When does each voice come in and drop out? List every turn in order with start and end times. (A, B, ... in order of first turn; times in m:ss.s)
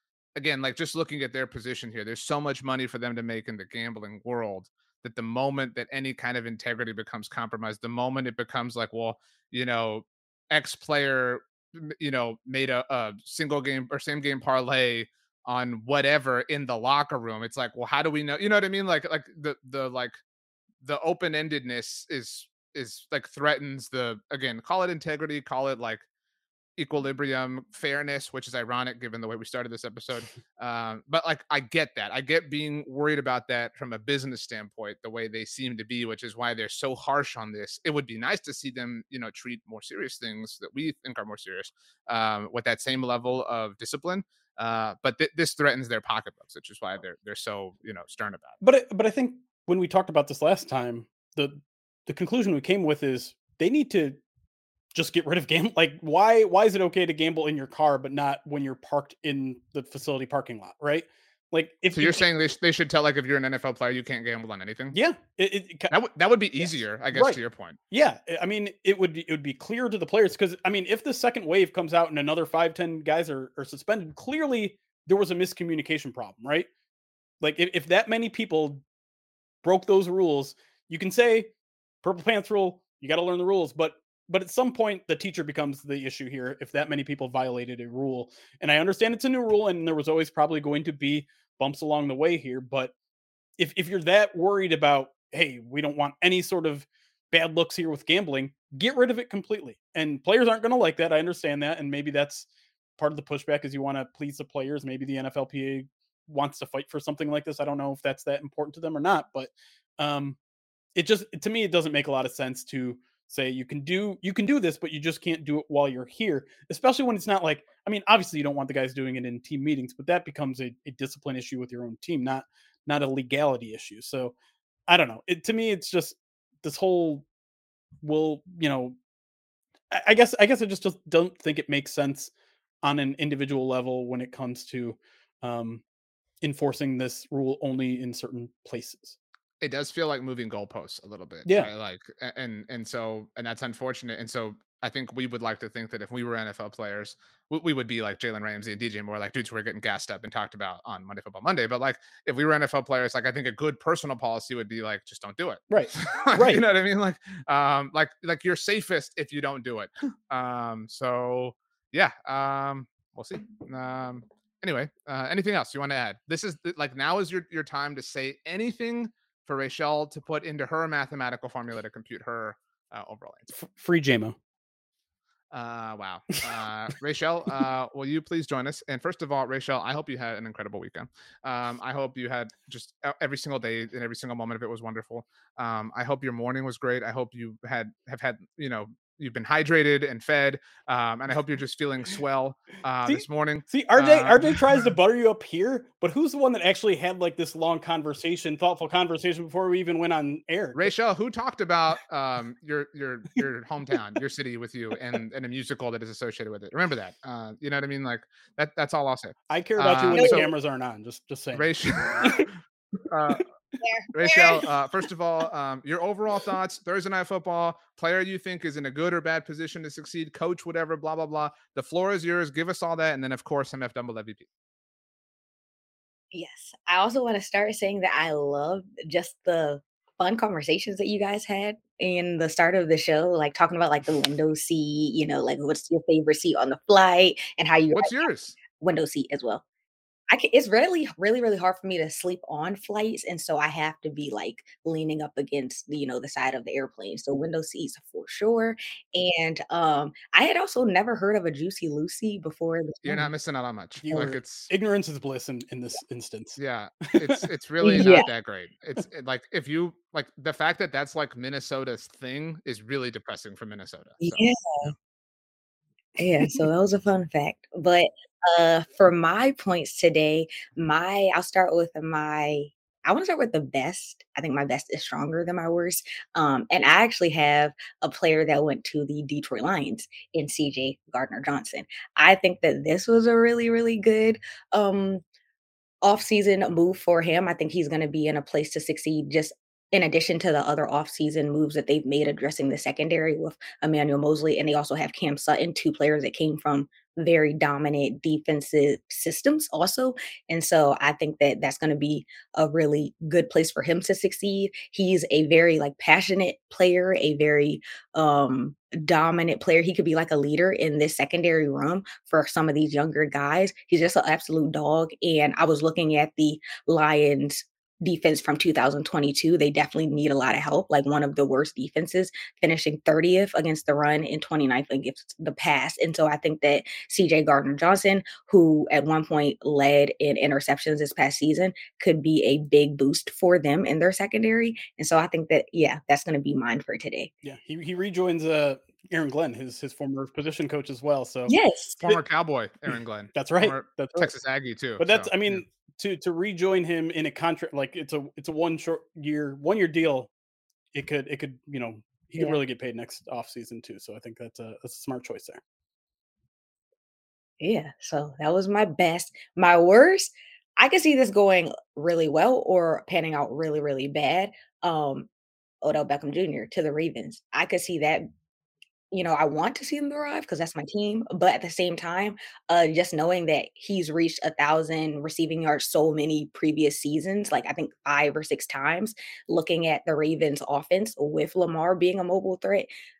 0:00.4-0:20.2 A
0:20.8-0:26.0 A
0:26.8-0:48.6 A
0:48.6-0:54.2 B
0:54.9-1:02.2 B
1:01.9-1:05.0 A
1:04.9-1:05.9 B
1:05.9-1:07.8 A
1:06.6-1:16.7 B
1:17.4-1:18.8 B
1:19.6-1:21.5 B
1:22.0-1:32.9 B
1:33.6-1:42.5 B
1:43.0-1:50.4 B
1:51.0-2:04.3 B
2:04.9-2:07.2 B
2:08.0-2:09.0 B
2:09.9-2:12.3 B
2:12.8-2:15.8 B
2:16.4-2:19.2 B
2:19.6-2:53.5 A
2:21.4-2:21.7 B
2:35.7-2:36.6 B
2:53.5-2:54.4 B
2:55.5-3:14.6 A
3:13.0-3:20.9 B
3:20.7-3:30.5 A
3:29.5-3:32.5 B
3:30.1-3:30.5 C
3:31.5-3:32.5 A
3:33.1-3:33.5 A
3:33.8-3:34.6 C
3:34.1-3:44.5 A
3:46.3-3:59.6 C
3:57.9-3:58.6 A
4:00.3-4:13.3 C
4:13.0-4:14.7 A
4:14.0-4:16.6 B
4:16.6-4:24.9 A
4:17.8-4:18.3 C
4:24.2-4:24.9 C
4:26.2-4:45.2 C
4:46.0-5:37.3 C
5:37.4-5:41.6 B
5:41.5-5:42.2 C
5:42.0-5:45.6 A
5:43.3-5:44.3 B
5:45.0-5:50.3 B
5:50.9-5:55.6 B
5:57.6-6:05.3 C
6:05.8-6:08.2 C
6:09.1-6:22.9 C